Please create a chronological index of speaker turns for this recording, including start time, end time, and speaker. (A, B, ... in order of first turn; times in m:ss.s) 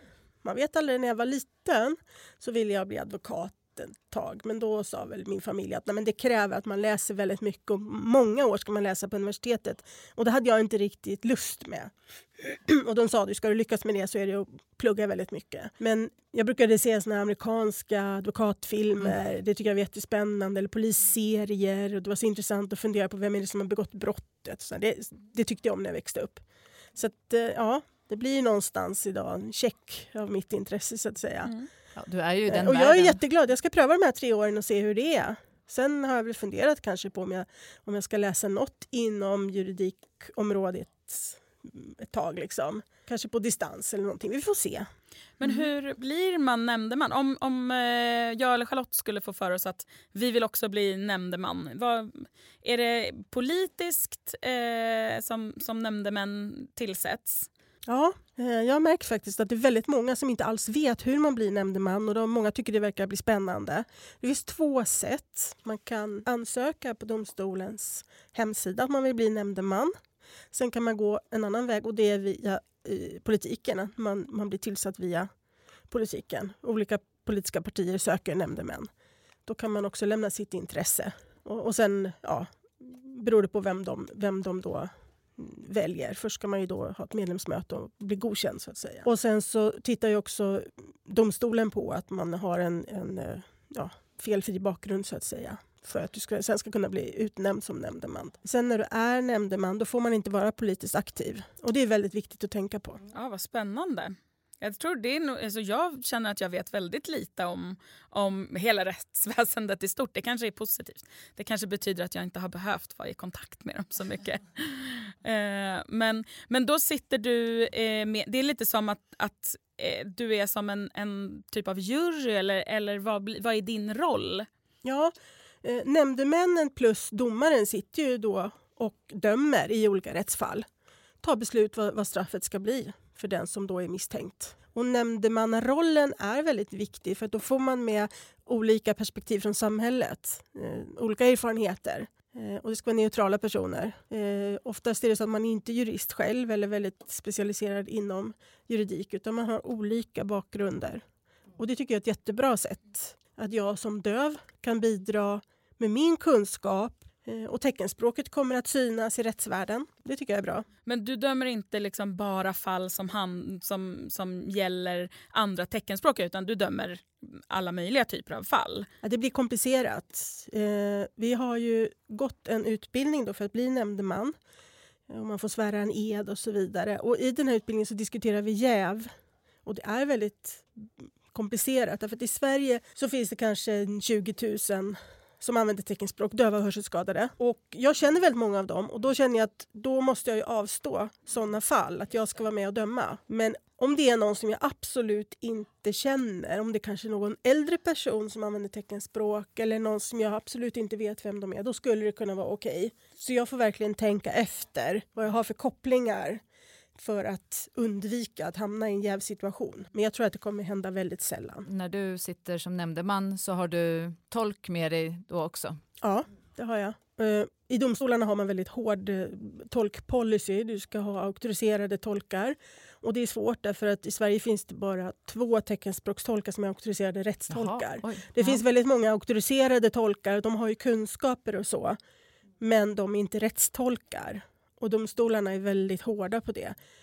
0:00.4-0:26.4 A
0:26.9-0:31.5 A
0:31.9-0:33.2 B
0:32.5-0:44.9 A
0:45.4-0:57.5 C
0:57.9-1:09.9 A
1:10.5-1:15.3 A
1:15.9-1:18.9 A
1:19.4-1:43.0 A
1:43.1-2:04.5 C
2:04.8-2:10.6 A
2:11.2-2:31.0 A
2:31.6-2:40.6 A
2:40.8-2:48.9 C
2:49.0-2:54.3 A
2:55.1-2:59.1 A
2:59.6-3:26.4 A
3:27.0-3:31.7 A
3:31.7-3:35.8 B
3:36.0-3:52.0 A
3:47.5-3:48.6 B
3:52.6-3:56.8 A